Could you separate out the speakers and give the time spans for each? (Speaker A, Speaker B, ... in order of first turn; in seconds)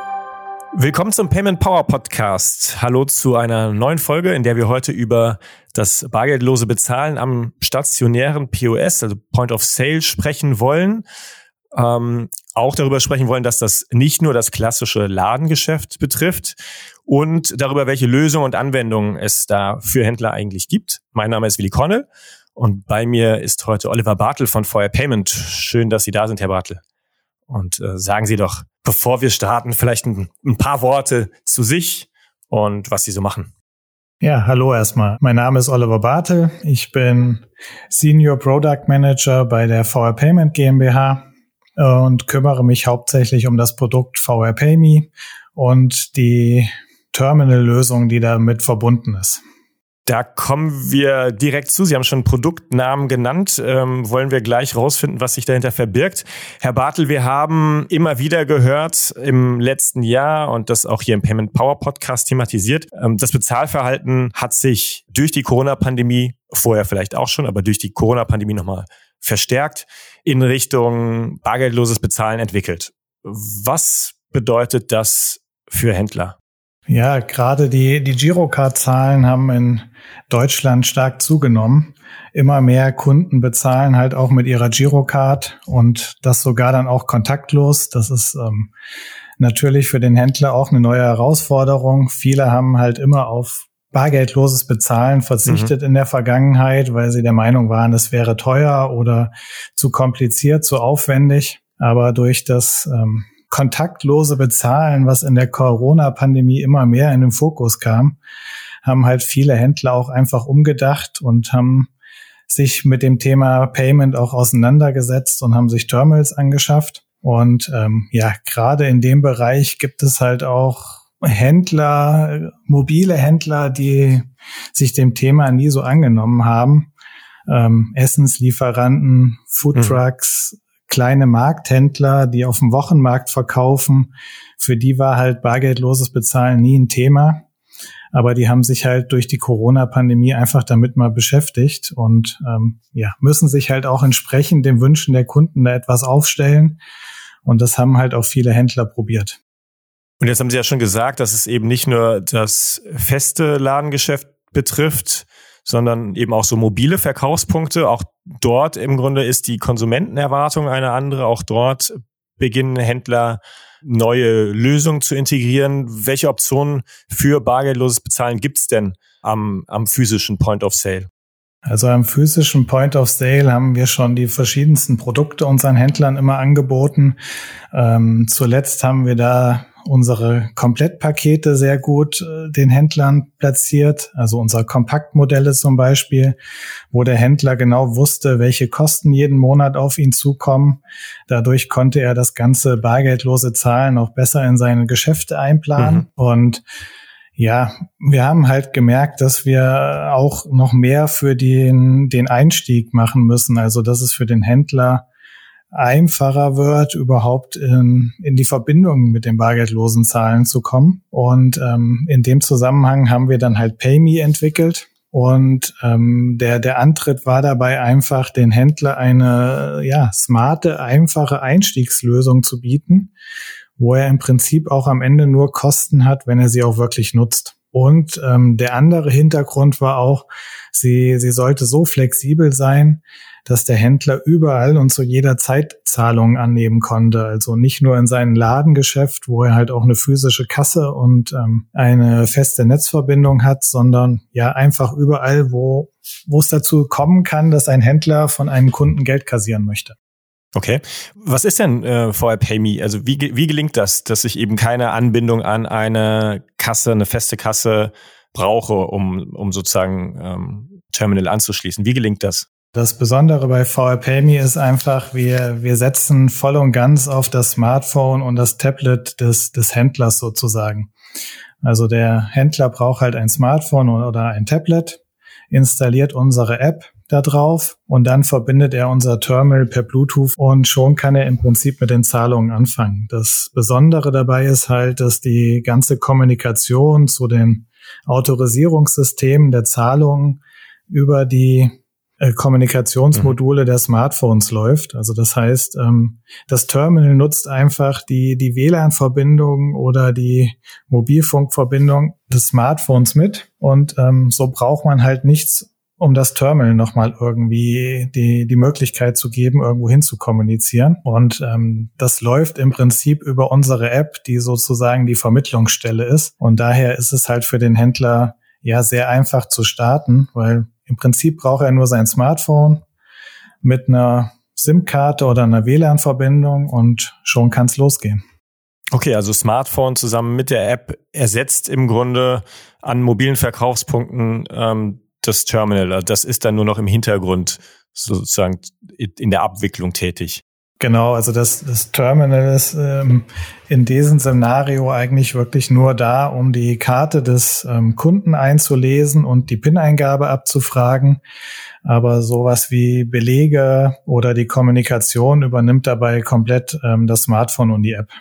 Speaker A: 0.7-11.1, 11.7-26.8, 27.5-33.5, 50.1-76.4, 95.5-95.7, 150.2-171.1, 195.8-196.1, 250.6-262.5, 328.9-340.4
Speaker B: 34.2-41.3, 41.8-49.4, 76.9-88.7, 89.4-108.2, 108.8-111.9, 112.5-126.9, 127.5-137.4, 138.1-146.8, 147.4-149.4, 171.7-177.2, 177.7-186.4, 186.9-196.6, 197.4-205.1, 205.7-223.1, 223.8-250.0, 262.7-270.9, 271.6-322.8, 323.6-328.2, 340.8-351.2, 351.9-358.1